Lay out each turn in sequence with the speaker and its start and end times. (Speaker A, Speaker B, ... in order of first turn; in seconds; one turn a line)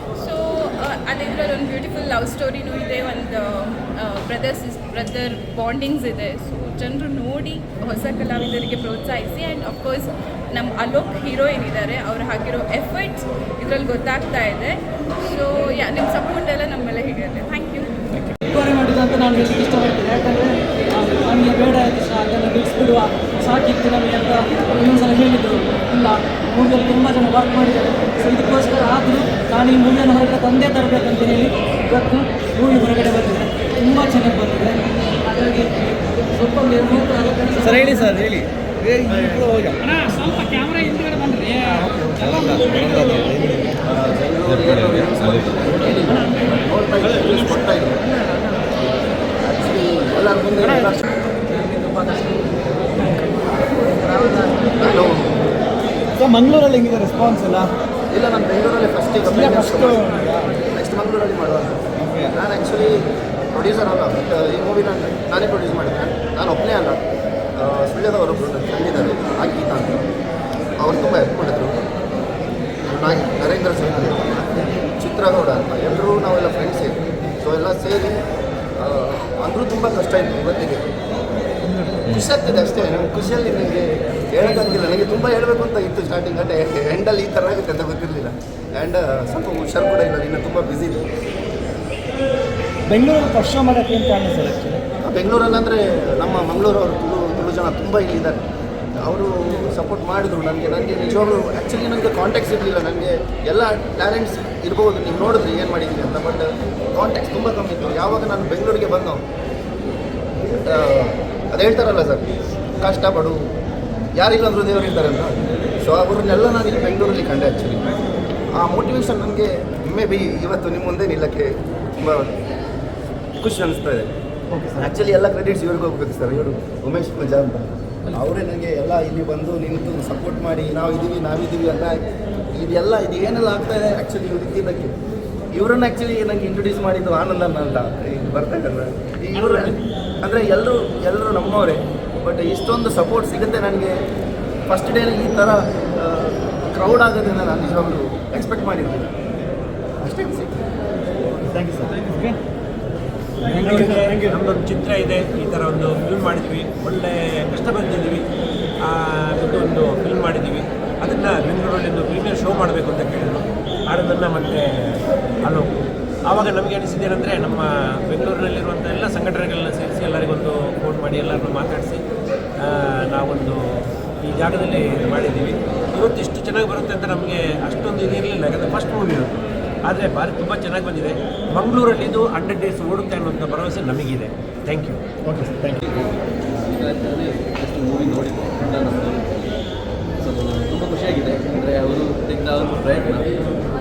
Speaker A: 0.2-18.0
Speaker B: 18.5-38.3
Speaker C: 37.6-39.8
Speaker B: 39.9-42.5
Speaker C: 41.7-43.8
Speaker D: 43.8-48.0
Speaker D: 48.7-51.0
Speaker E: 51.5-53.1
Speaker E: 53.7-54.7
Speaker D: 54.8-55.4
Speaker C: 56.1-57.7
Speaker D: 58.1-63.0
Speaker C: 59.2-60.5
Speaker C: 62.0-62.3
Speaker D: 63.5-67.0
Speaker D: 67.6-70.1
Speaker D: 70.8-71.7
Speaker D: 72.9-78.2
Speaker D: 78.8-80.8
Speaker D: 81.9-91.1
Speaker C: 92.9-94.8
Speaker D: 95.0-98.4
Speaker D: 99.0-109.2
Speaker D: 110.4-112.2
Speaker D: 112.8-113.5
Speaker D: 114.2-117.8
Speaker D: 118.6-122.3
Speaker D: 123.4-124.1
Speaker C: 124.5-124.9
Speaker D: 124.8-132.0
Speaker D: 132.6-134.9
Speaker D: 135.5-143.9
Speaker F: 139.3-139.8
Speaker D: 144.7-149.1
Speaker D: 150.0-150.6
Speaker C: 151.4-152.4
Speaker C: 153.4-154.4
Speaker F: 153.4-158.2
Speaker F: 158.8-165.7
Speaker F: 166.2-172.0
Speaker F: 172.6-179.3
Speaker F: 179.8-185.0
Speaker C: 185.2-185.8
Speaker E: 185.8-189.5
Speaker E: 190.2-193.4